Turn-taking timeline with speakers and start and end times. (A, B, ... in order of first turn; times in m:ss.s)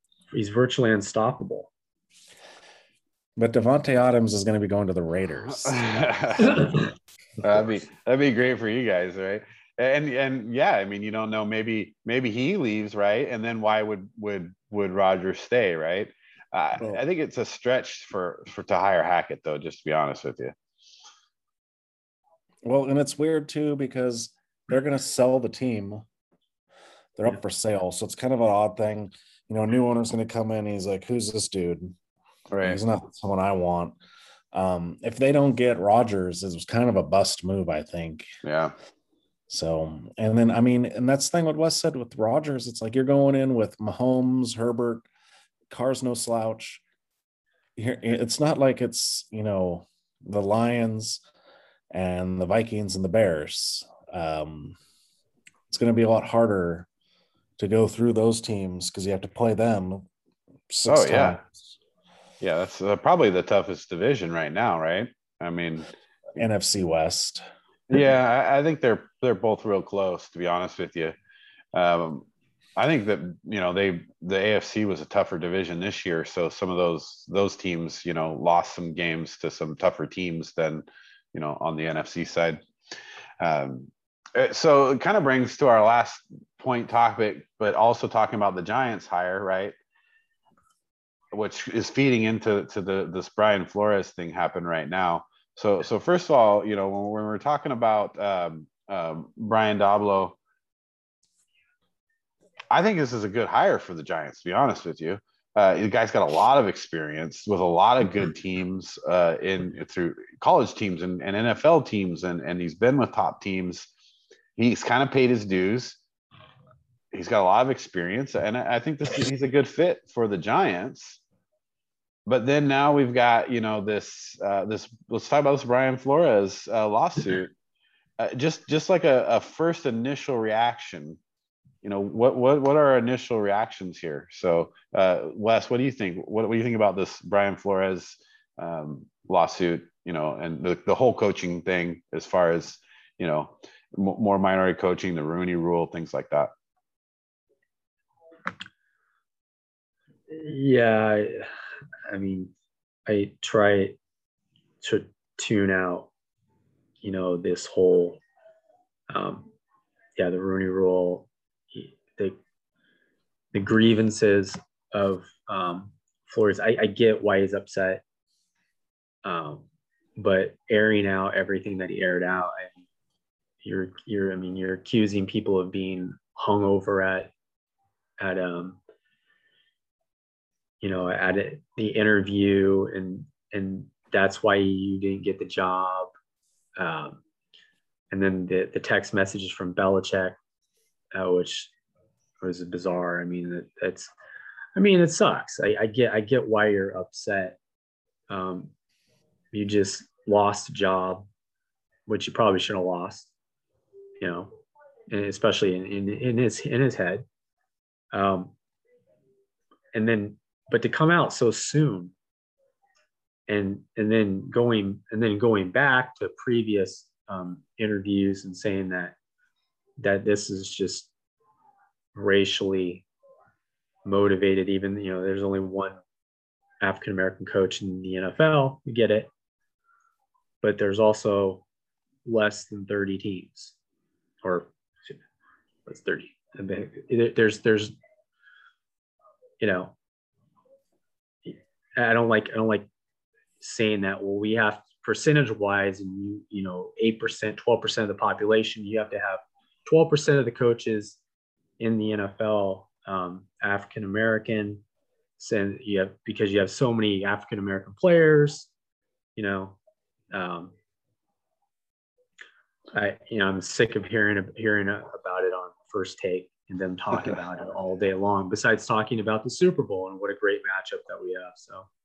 0:00.3-0:01.7 A
0:03.4-0:06.9 B
0:05.6-0:06.7 C
0:07.4-0:20.5 C
0:22.6-0:26.0 B
0:27.2-0:32.0 B
0:32.5-0:32.8 C
0:32.6-0:34.0 B
0:34.5-0:38.3 B
0:38.4-0:38.7 C
0:39.5-0:45.0 B
0:45.7-0:46.8 B
0:47.8-0:51.2 B
0:51.9-0:54.8 B
0:55.7-0:56.9 B
0:57.6-1:00.0 B
1:00.7-1:01.6 B
1:00.9-1:01.4 C
1:02.4-1:06.4 C
1:06.4-1:07.4 B
1:07.9-1:11.2 C
1:11.7-1:22.6 C
1:23.4-1:29.7 C
1:31.3-1:40.4 C
1:42.7-1:53.9 C
1:54.6-1:56.0 C
1:57.1-2:01.2 C
2:02.2-2:07.5 C
2:08.2-2:11.2 C
2:11.8-2:26.5 C
2:30.3-2:31.5 A
2:32.1-2:32.5 A
2:33.1-2:34.0 A
2:34.8-2:36.1 A
2:37.0-2:38.2 A
2:39.1-2:39.5 A
2:40.2-2:42.4 A
2:43.5-2:48.0 A
2:49.2-2:49.6 A
2:50.2-2:52.8 A
2:53.6-2:57.3 A
2:58.2-2:58.8 A
3:00.8-3:06.1 A
3:06.8-3:07.2 A
3:08.1-3:10.4 A
3:11.1-3:11.7 A
3:12.4-3:14.1 A
3:14.7-3:17.6 A
3:18.3-3:18.7 A
3:19.5-3:21.3 A
3:22.1-3:23.3 A
3:24.2-3:24.6 A
3:25.1-3:27.2 A
3:28.1-3:28.5 A
3:29.9-3:32.1 A
3:33.5-3:39.2 A
3:40.0-3:41.1 A
3:42.1-3:43.0 A
3:44.0-3:46.0 A
3:46.8-3:49.3 A
3:50.6-3:51.6 A
3:52.2-3:53.7 A
3:54.4-3:55.1 A
3:55.8-3:57.9 A
3:59.6-3:59.9 A
4:01.4-4:02.9 A
4:03.6-4:11.2 A
4:11.8-4:14.8 A
4:15.4-4:18.7 A
4:19.4-4:19.8 A
4:20.3-4:20.7 A
4:22.9-4:31.9 A